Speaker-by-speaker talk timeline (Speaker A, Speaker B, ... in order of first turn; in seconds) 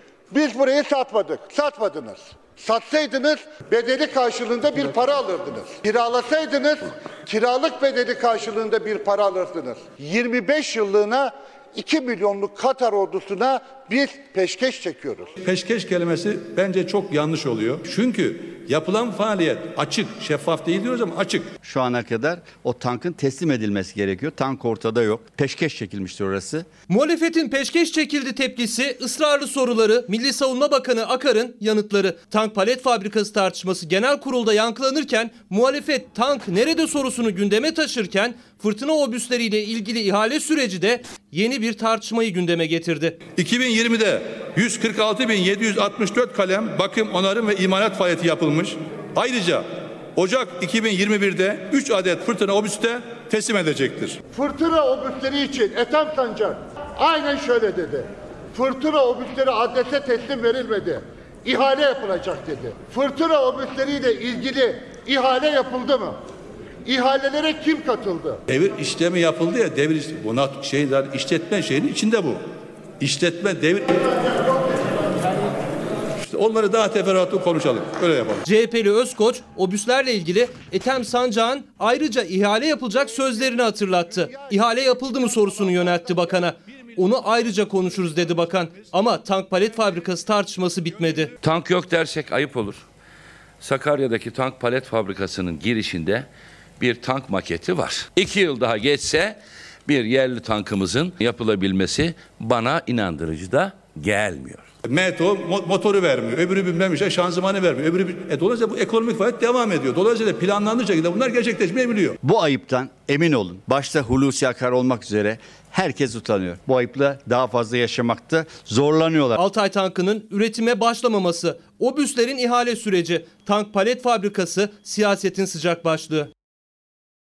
Speaker A: 0.3-15.3, 54.3-66.2, 66.9-68.4
Speaker B: 15.4-21.5, 43.4-54.2, 68.5-72.4, 73.0-74.0, 76.2-78.4, 104.8-112.2
Speaker C: 21.6-26.7, 112.2-119.4
Speaker D: 26.9-43.2, 78.5-91.3, 119.4-126.3
Speaker E: 91.4-92.8, 93.6-96.3, 96.8-104.7